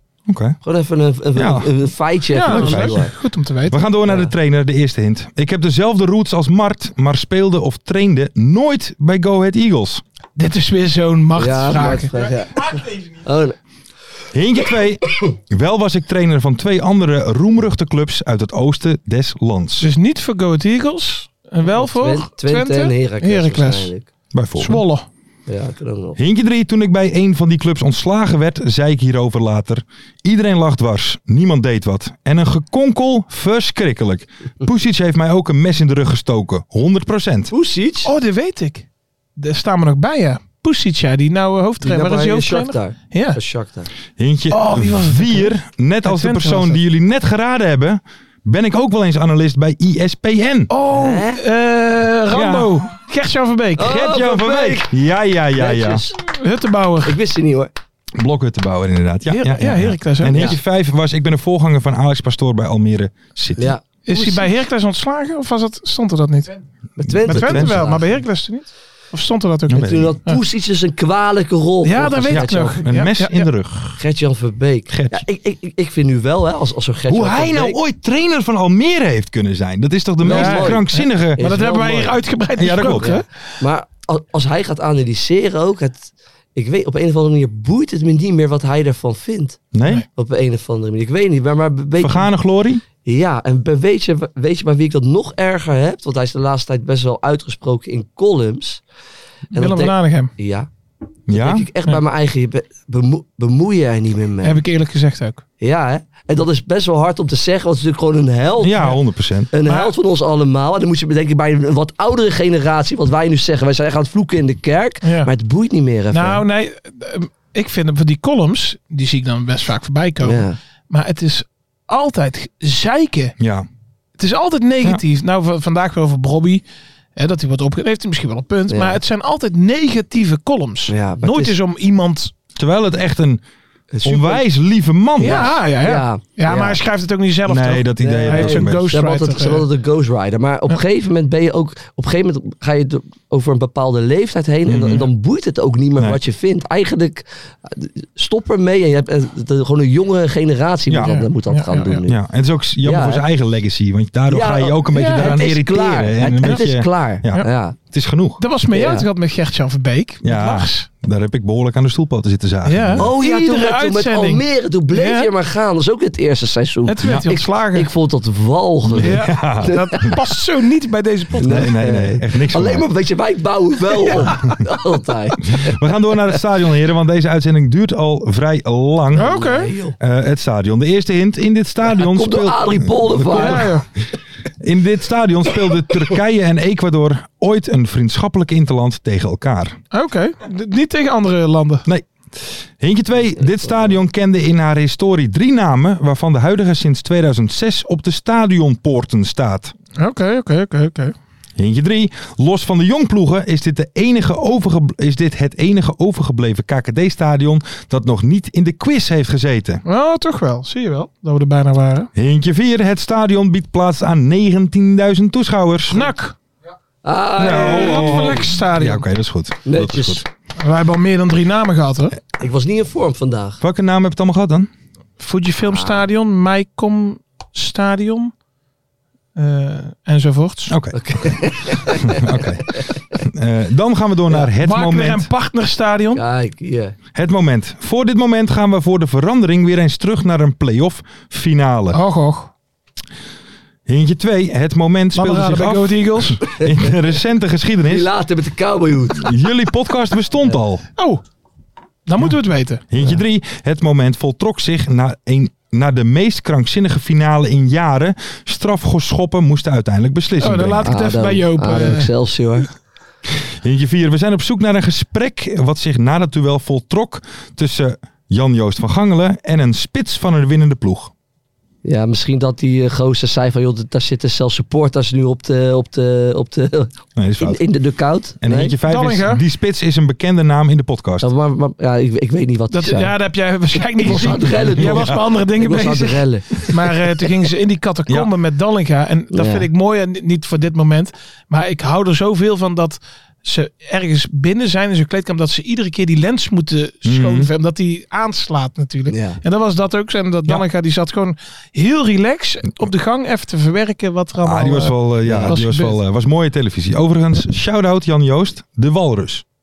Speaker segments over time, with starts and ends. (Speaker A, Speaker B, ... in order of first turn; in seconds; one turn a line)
Speaker A: 0.3-0.6
Speaker B: 0.6-3.1
Speaker A: 1.4-1.7
Speaker C: 2.3-3.8
Speaker A: 2.4-3.0
Speaker A: 3.7-10.0
Speaker C: 10.3-12.1
Speaker B: 11.3-13.6
Speaker A: 14.3-19.9
Speaker C: 19.8-23.9
Speaker B: 21.6-24.1
Speaker A: 24.3-24.8
Speaker C: 24.6-25.0
Speaker B: 25.5-26.2
Speaker A: 26.2-37.5
Speaker B: 37.5-38.1
Speaker C: 38.0-38.9
Speaker C: 39.4-43.4
Speaker B: 41.8-43.9
Speaker A: 44.2-50.7
Speaker C: 44.5-46.8
Speaker C: 50.7-54.0
Speaker B: 50.9-51.4
Speaker A: 52.3-52.8
Speaker B: 53.8-54.9
Speaker A: 53.8-56.0
Speaker B: 55.5-56.2
Speaker C: 56.2-57.2
Speaker B: 57.0-57.7
Speaker A: 58.1-63.7
Speaker C: 59.3-60.5
Speaker B: 63.6-64.5
Speaker C: 64.1-66.5
Speaker B: 67.0-68.2
Speaker A: 67.0-67.8
Speaker C: 67.2-70.4
Speaker A: 69.7-70.1
Speaker B: 69.8-72.8
Speaker C: 71.8-73.5
Speaker A: 72.3-73.9
Speaker B: 74.0-77.8
Speaker A: 74.9-75.2
Speaker A: 77.1-81.5
Speaker B: 80.2-82.2
Speaker C: 80.3-83.2
Speaker A: 82.5-83.2
Speaker B: 82.9-89.6
Speaker A: 89.7-90.0
Speaker B: 90.1-92.3
Speaker A: 92.0-92.8
Speaker B: 93.0-98.8
Speaker C: 99.5-100.3
Speaker B: 99.5-100.7
Speaker A: 101.3-101.7
Speaker B: 101.3-104.6
Speaker C: 104.4-105.4
Speaker B: 105.6-108.8
Speaker A: 108.6-109.5
Speaker B: 109.5-116.4
Speaker C: 109.6-109.9
Speaker C: 115.0-115.3
Speaker C: 116.1-123.3
Speaker B: 120.2-120.6
Speaker A: 123.4-123.7
Speaker C: 124.2-126.6
Speaker C: 127.2-132.3
Speaker B: 128.7-129.0
Speaker B: 130.9-131.5
Speaker A: 132.6-133.4
Speaker B: 133.9-134.4
Speaker A: 134.0-135.5
Speaker B: 135.2-136.8
Speaker C: 135.2-139.7
Speaker A: 137.4-138.9
Speaker B: 138.0-152.2
Speaker A: 144.7-145.1
Speaker C: 151.0-152.0
Speaker A: 152.1-158.4
Speaker B: 152.8-153.2
Speaker B: 154.3-157.8
Speaker C: 154.9-155.3
Speaker C: 158.4-160.9
Speaker B: 158.7-159.1
Speaker A: 160.2-163.1
Speaker C: 162.6-165.3
Speaker B: 163.0-170.2
Speaker C: 166.8-167.9
Speaker A: 168.9-170.1
Speaker C: 169.0-171.7
Speaker B: 171.4-175.8
Speaker A: 171.4-172.8
Speaker A: 175.5-179.3
Speaker B: 179.1-180.0
Speaker C: 179.1-179.7
Speaker A: 180.0-183.8
Speaker B: 181.9-183.7
Speaker C: 183.3-183.8
Speaker A: 184.6-189.8
Speaker C: 189.9-191.8
Speaker A: 192.8-199.7
Speaker C: 199.9-201.1
Speaker A: 201.6-209.8
Speaker C: 209.8-212.1
Speaker A: 212.1-216.1
Speaker C: 215.9-216.3
Speaker B: 217.0-218.4
Speaker A: 217.4-220.2
Speaker C: 217.4-219.0
Speaker B: 219.6-220.2
Speaker C: 220.6-222.2
Speaker B: 222.4-223.6
Speaker A: 223.6-224.7
Speaker C: 225.2-228.3
Speaker B: 225.6-226.1
Speaker C: 229.3-230.7
Speaker A: 230.7-231.3
Speaker B: 230.9-232.4
Speaker A: 231.9-235.3
Speaker C: 234.4-236.2
Speaker B: 236.1-236.9
Speaker A: 237.1-242.0
Speaker C: 241.9-242.5
Speaker A: 243.9-248.1
Speaker C: 245.1-246.4
Speaker B: 247.8-249.3
Speaker A: 249.1-250.8
Speaker C: 251.0-251.2
Speaker C: 252.1-252.8
Speaker A: 252.9-261.0
Speaker C: 260.4-262.1
Speaker B: 260.8-262.7
Speaker A: 263.6-271.1
Speaker B: 271.8-278.7
Speaker A: 277.2-277.6
Speaker A: 278.4-281.3
Speaker C: 278.9-279.4
Speaker B: 281.2-283.1
Speaker C: 282.7-306.0
Speaker B: 284.0-286.7
Speaker A: 284.4-285.2
Speaker B: 289.3-289.7
Speaker A: 297.0-297.5
Speaker B: 299.1-299.4
Speaker A: 304.4-309.4
Speaker B: 305.2-305.5